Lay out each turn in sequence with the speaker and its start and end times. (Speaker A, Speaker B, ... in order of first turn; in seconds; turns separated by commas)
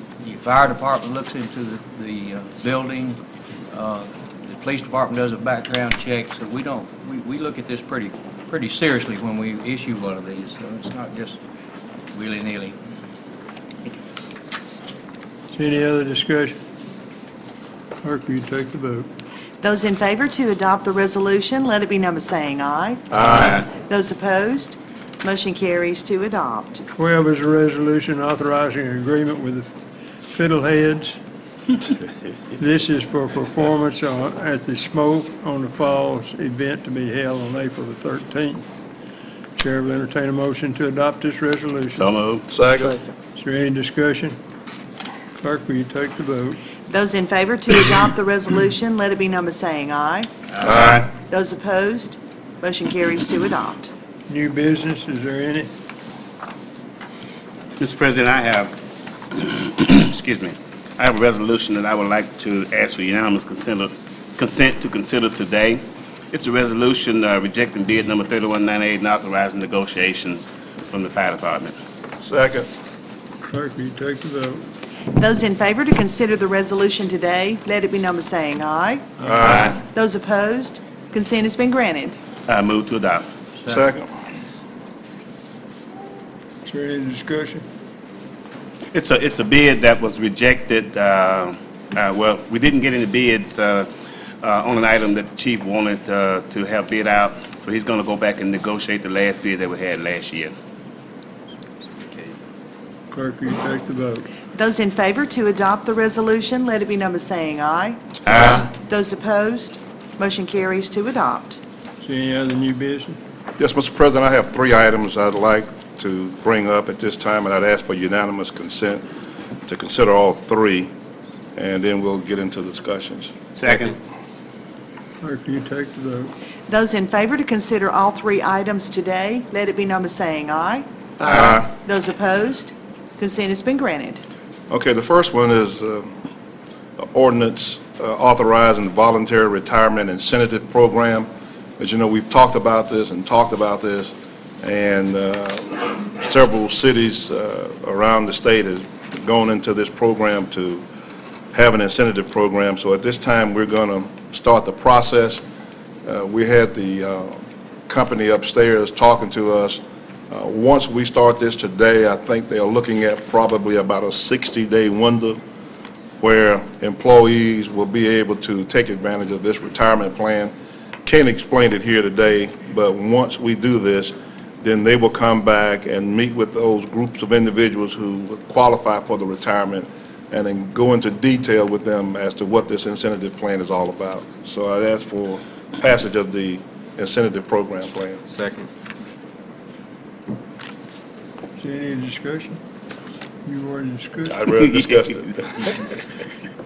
Speaker A: 0.2-3.2, Speaker A: 3.7-11.4, Speaker A: 12.1-12.8, Speaker B: 15.5-16.6, Speaker B: 18.0-19.1, Speaker C: 19.6-26.8, Speaker B: 26.9-29.7, Speaker B: 30.3-31.2, Speaker B: 32.6-38.6, Speaker B: 39.6-42.0, Speaker D: 42.0-42.5, Speaker E: 42.5-43.0, Speaker B: 43.4-44.4, Speaker B: 45.4-46.6, Speaker C: 46.9-50.3, Speaker D: 50.6-51.1, Speaker C: 51.2-53.9, Speaker B: 54.3-55.7, Speaker D: 57.8-58.8, Speaker D: 59.3-71.8, Speaker E: 72.2-72.7, Speaker B: 73.4-74.7, Speaker C: 75.2-79.1, Speaker E: 79.2-79.7, Speaker D: 79.4-79.8, Speaker C: 79.7-82.2, Speaker D: 82.5-83.2, Speaker E: 83.6-84.1, Speaker B: 86.7-87.6, Speaker D: 88.9-93.9, Speaker D: 94.4-100.5, Speaker B: 103.1-104.3, Speaker C: 104.5-108.0, Speaker D: 108.3-108.7, Speaker C: 108.6-111.6, Speaker B: 112.0-113.2, Speaker E: 113.6-119.0, Speaker E: 119.7-120.9, Speaker E: 121.6-123.3, Speaker D: 123.6-124.0, Speaker B: 125.2-126.3, Speaker C: 126.7-130.9, Speaker E: 131.3-131.7, Speaker C: 131.7-134.2, Speaker E: 134.7-136.1, Speaker E: 137.0-141.3, Speaker E: 141.8-150.8, Speaker E: 151.5-155.4, Speaker E: 156.1-165.4, Speaker E: 166.2-170.5, Speaker E: 171.1-188.2, Speaker B: 191.6-192.6, Speaker B: 193.4-194.4, Speaker E: 194.3-195.7